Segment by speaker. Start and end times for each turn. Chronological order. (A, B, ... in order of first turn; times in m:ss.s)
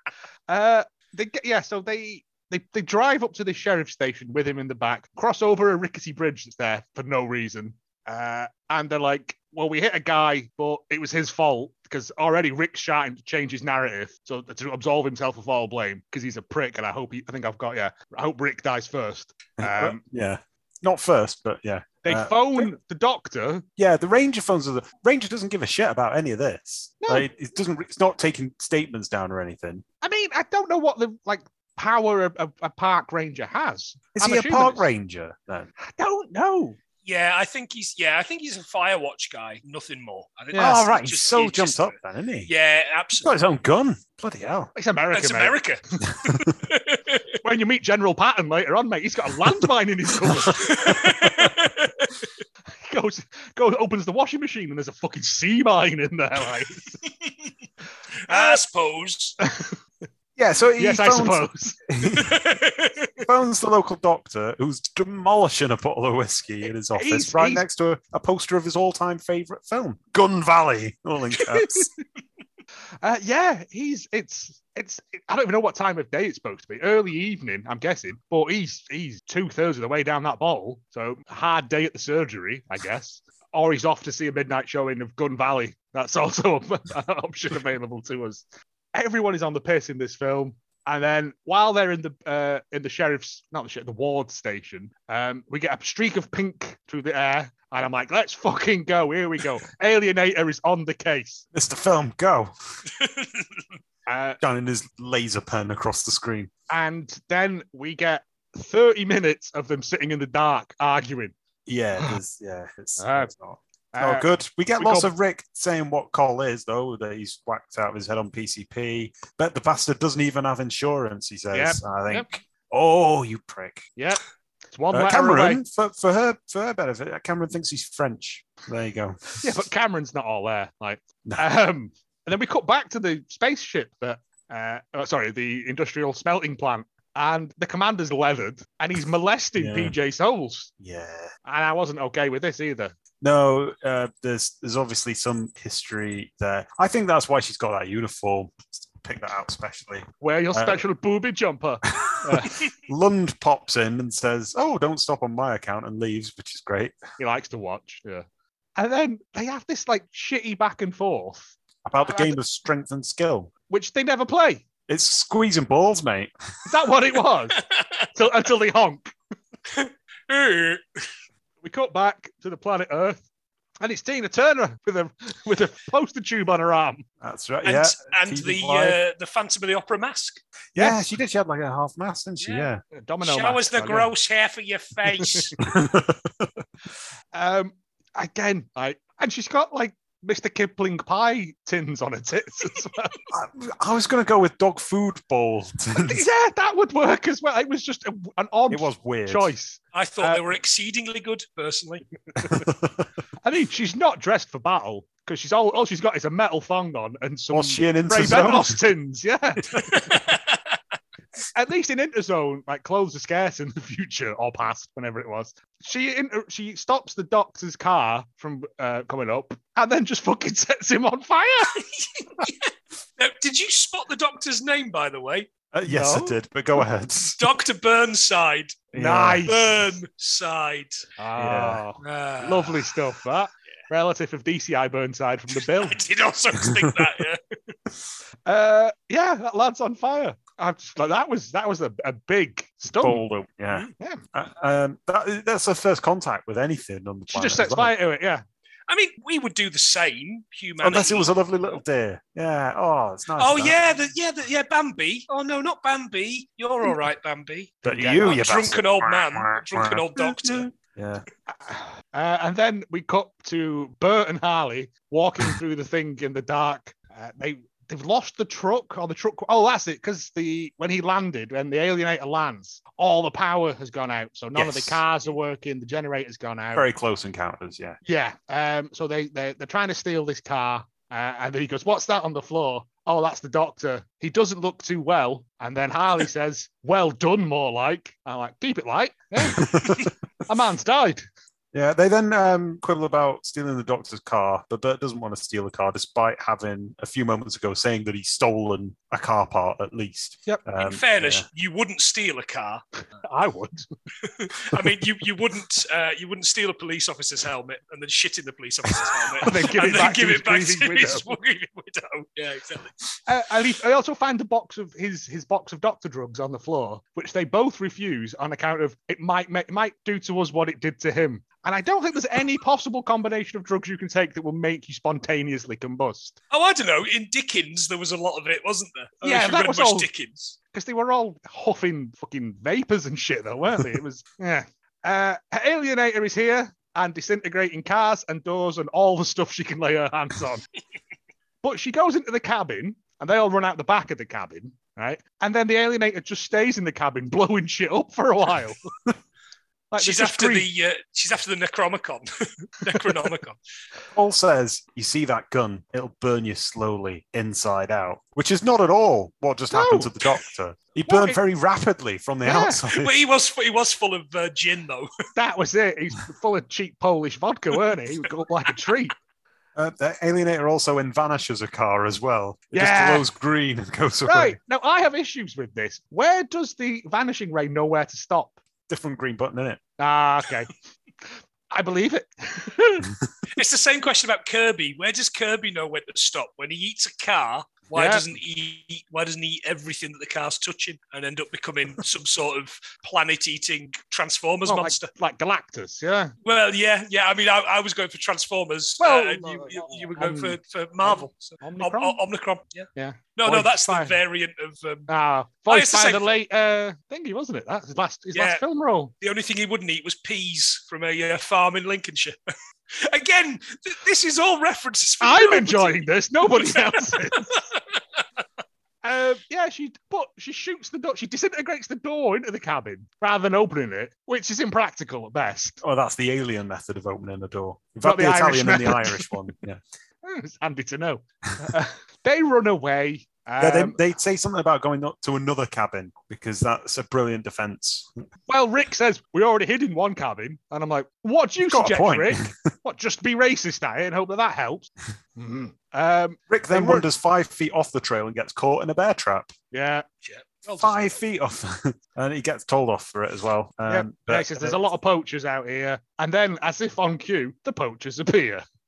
0:00.5-0:20.0 A
0:19.6-0:22.7 B
0:22.0-0:23.6 A
0:23.8-0:29.8 B
0:27.0-0:27.3 A
0:30.0-0:34.9 A
0:34.2-0:35.7 B
0:35.8-0:36.8 A
0:37.0-0:42.0 C
0:40.5-0:40.8 A
0:40.5-0:42.5 B
0:42.5-0:43.3 C
0:43.2-0:44.7 B
0:44.8-0:45.6 A
0:45.1-0:47.2 C
0:46.2-0:46.5 B
0:47.4-0:51.4 A
0:50.5-0:52.1 C
0:52.8-0:57.0 A
0:57.0-0:57.3 C
0:58.3-0:59.4 C
0:58.3-0:58.6 A
0:59.4-0:59.8 A
1:00.4-1:02.4 B
1:00.8-1:01.8 A
1:02.1-1:03.1 C
1:03.2-1:11.9 B
1:07.0-1:07.6 A
1:13.0-1:41.4 A
1:41.5-1:42.5 B
1:42.9-1:43.5 C
1:44.1-1:44.4 A
1:44.4-1:46.5 B
1:46.7-1:51.3 A
1:51.7-2:03.9 B
1:53.0-1:53.3 A
1:53.9-1:55.1 A
2:01.5-2:02.3 A
2:04.0-2:05.6 A
2:04.9-2:09.4 B
2:09.4-2:20.7 A
2:19.6-2:19.9 B
2:20.8-2:21.3 B
2:21.4-2:22.9 A
2:23.2-2:30.8 B
2:30.2-2:32.6 A
2:31.9-2:37.0 B
2:37.2-2:38.2 A
2:38.8-2:42.4 A
2:41.8-2:43.5 B
2:43.7-2:44.6 A
2:44.9-2:46.3 B
2:46.6-2:47.6 A
2:47.6-2:48.1 C
2:48.1-2:49.1 A
2:49.7-2:51.0 C
2:51.6-2:53.2 A
2:53.8-2:57.0 A
2:57.2-2:59.0 B
2:57.6-3:00.4 C
3:00.8-3:01.0 A
3:00.8-3:02.8 B
3:02.4-3:02.7 C
3:03.0-3:04.1 A
3:03.2-3:05.6 C
3:05.2-3:05.5 A
3:05.6-3:06.5 B
3:07.3-3:13.1 A
3:13.3-3:16.2 B
3:15.9-3:20.4 A
3:18.7-3:19.5 B
3:19.9-3:22.0 C
3:22.5-3:23.0 B
3:23.4-3:30.0 A
3:27.5-3:28.8 B
3:29.9-3:30.6 C
3:31.5-3:41.8 A
3:42.4-3:45.5 C
3:45.7-3:47.4 B
3:45.9-3:46.4 A
3:47.4-3:48.8 C
3:48.9-3:49.5 B
3:48.9-3:49.9 A
3:49.5-3:51.1 C
3:51.2-3:56.0 A
3:51.4-3:51.8 B
3:52.0-3:53.0 C
3:55.6-3:57.4 C
3:56.7-3:57.0 B
3:58.5-4:03.2 A
4:03.0-4:07.9 B
4:04.0-4:04.2 A
4:07.3-4:08.4 A
4:08.9-4:11.3 C
4:10.8-4:13.8 B
4:13.4-4:20.7 C
4:17.8-4:18.4 A
4:17.8-4:21.2 B
4:21.5-4:36.9 A
4:34.5-4:35.0 B
4:36.8-4:38.0 B
4:38.0-4:51.2 A
4:49.5-4:50.1 B
4:51.7-5:01.5 B
5:00.8-5:02.8 C
5:03.2-5:03.9 A
5:04.2-5:12.9 C
5:09.4-5:11.3 A
5:13.3-5:26.4 A
5:26.5-5:30.6 C
5:29.2-5:30.1 A
5:30.7-5:40.6 A
5:41.6-5:48.8 A
5:49.9-5:50.7 A
5:50.0-5:53.6 C
5:54.1-6:03.1 B
5:59.7-6:00.1 A
6:01.1-6:01.4 A
6:02.4-6:02.8 A
6:02.9-6:05.1 C
6:05.4-6:09.1 A
6:09.8-6:14.6 B
6:12.7-6:13.3 A
6:14.3-6:18.6 A
6:18.9-6:19.8 B
6:20.0-6:20.7 A
6:21.7-6:23.1 A
6:23.5-6:35.1 C
6:27.9-6:28.2 A
6:34.7-6:36.3 A
6:36.4-6:45.1 C
6:39.0-6:42.2 A
6:43.0-6:44.2 A
6:45.1-6:49.1 A
6:45.7-6:46.4 C
6:48.3-6:48.6 C
6:49.2-6:52.4 C
6:52.9-6:57.8 C
6:55.2-6:57.6 A
6:59.0-7:05.8 A
7:05.8-7:09.8 B
7:08.0-7:09.3 A
7:10.2-7:14.0 A
7:13.6-7:18.2 B
7:18.5-7:27.1 A
7:21.6-7:22.7 B
7:26.5-7:29.5 B
7:29.7-7:30.0 A
7:30.2-7:31.1 C
7:30.8-7:34.8 B
7:33.9-7:38.6 A